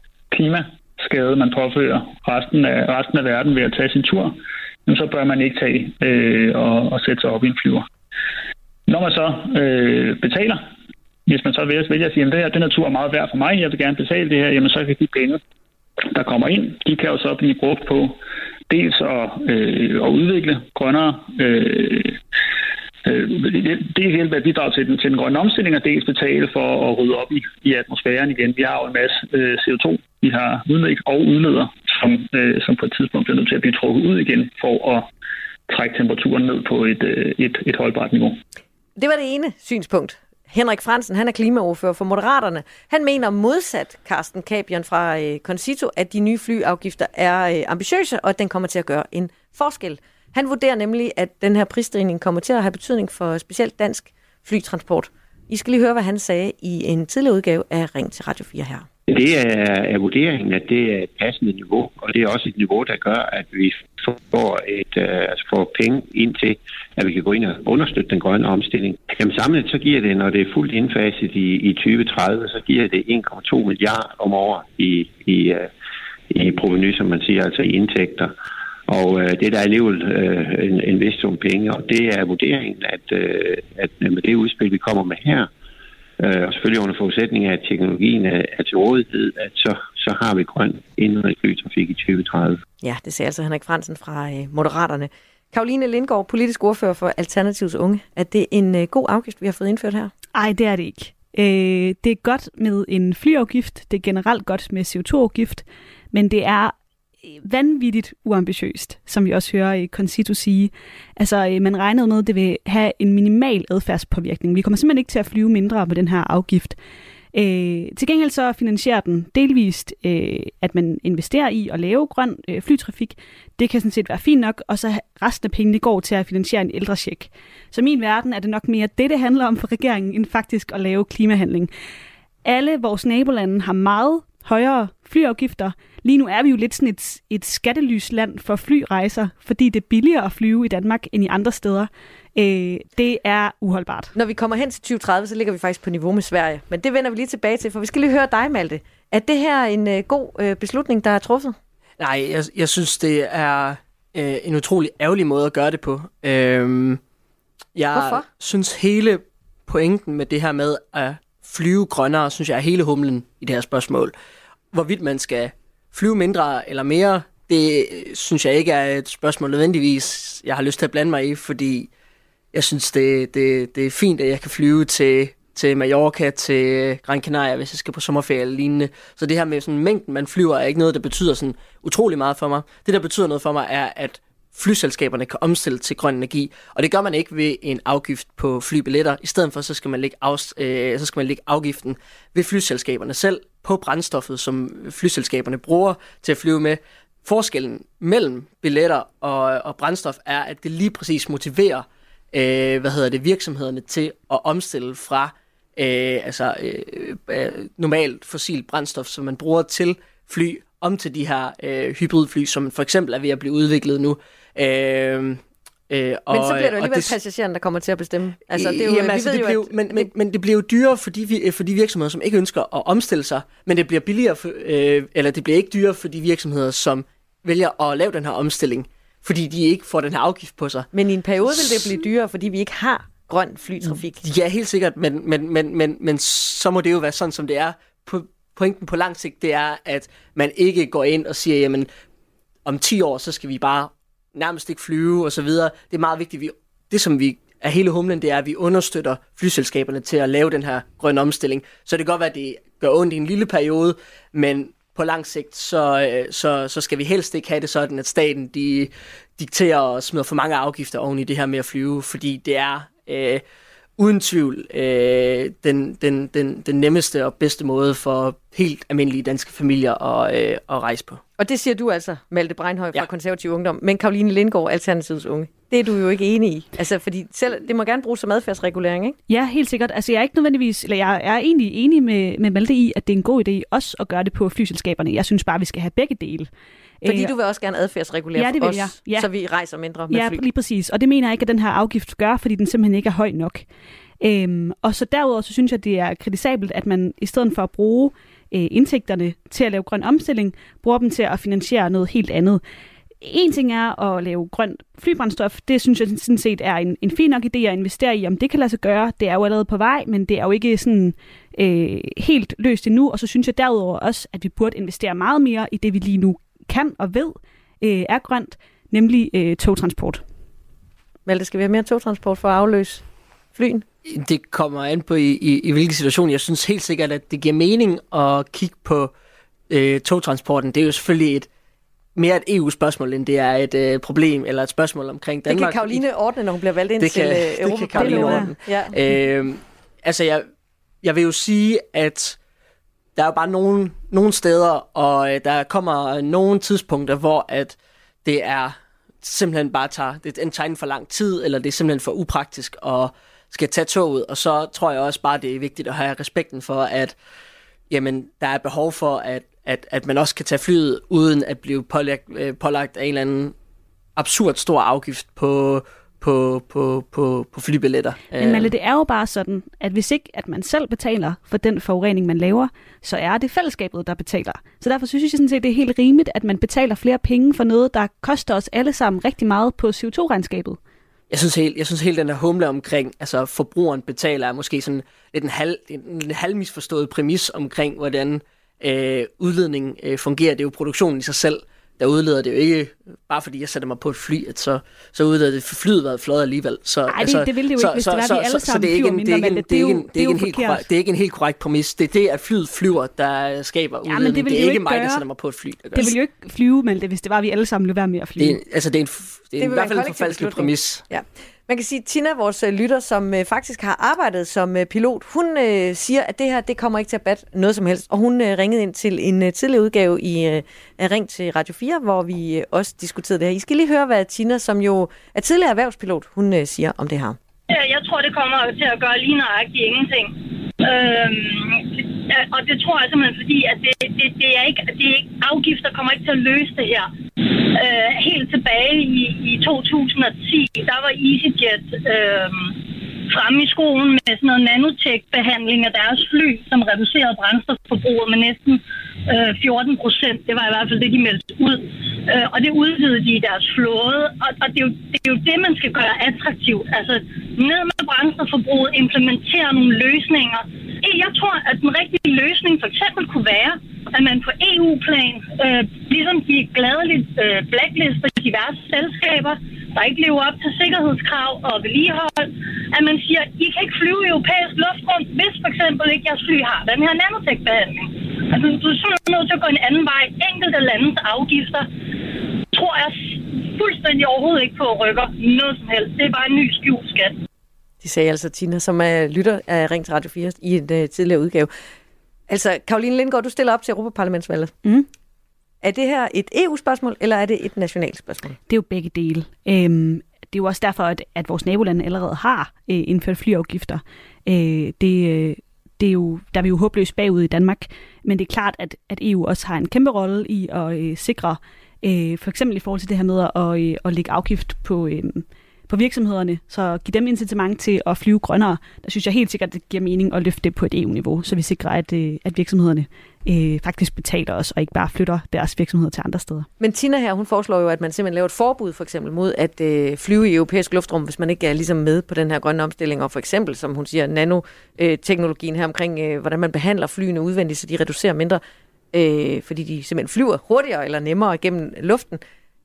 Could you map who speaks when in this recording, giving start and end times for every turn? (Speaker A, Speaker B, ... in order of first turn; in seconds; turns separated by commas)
Speaker A: 0.3-7.9, Speaker A: 8.9-10.6, Speaker A: 11.3-15.4, Speaker A: 16.1-18.2, Speaker A: 18.7-22.2, Speaker A: 23.1-35.1, Speaker A: 35.7-38.4, Speaker B: 39.0-58.9, Speaker C: 59.1-75.7, Speaker C: 76.3-78.3, Speaker C: 78.9-85.5, Speaker C: 86.2-92.6, Speaker B: 92.8-100.1, Speaker D: 100.3-116.8, Speaker D: 117.3-131.7, Speaker D: 132.4-144.1, Speaker B: 144.2-151.6, Speaker E: 152.0-157.0, Speaker E: 157.8-164.1, Speaker B: 157.9-158.2, Speaker E: 164.7-171.9, Speaker E: 172.5-217.1, Speaker B: 216.3-220.1, Speaker E: 218.5-230.9, Speaker B: 230.9-234.2, Speaker E: 231.4-232.0, Speaker E: 233.9-241.9, Speaker E: 242.7-263.4, Speaker E: 264.0-271.2, Speaker B: 271.4-279.2, Speaker D: 279.3-286.5, Speaker D: 287.0-287.3, Speaker B: 287.1-290.4, Speaker D: 288.4-289.3, Speaker D: 290.1-293.6, Speaker D: 294.2-302.6, Speaker D: 303.2-320.2, Speaker B: 321.3-323.0, Speaker B: 323.6-323.9, Speaker E: 324.1-329.1, Speaker E: 329.7-331.5, Speaker E: 332.1-336.0, Speaker B: 335.5-338.9, Speaker E: 337.0-340.4, Speaker D: 338.0-338.5, Speaker E: 341.0-342.4, Speaker E: 343.2-357.1, Speaker E: 357.9-363.5, Speaker E: 364.2-368.7, Speaker D: 368.4-380.8, Speaker E: 381.3-406.1, Speaker D: 397.1-400.9, Speaker D: 404.1-405.2, Speaker D: 405.9-408.6, Speaker E: 408.4-411.0, Speaker B: 409.6-427.4, Speaker F: 427.7-481.9, Speaker F: 482.7-487.4, Speaker B: 488.0-491.7, Speaker B: 492.5-494.7, Speaker B: 495.8-498.6, Speaker D: 498.7-526.7, Speaker B: 526.8-538.6, Speaker B: 539.1-542.4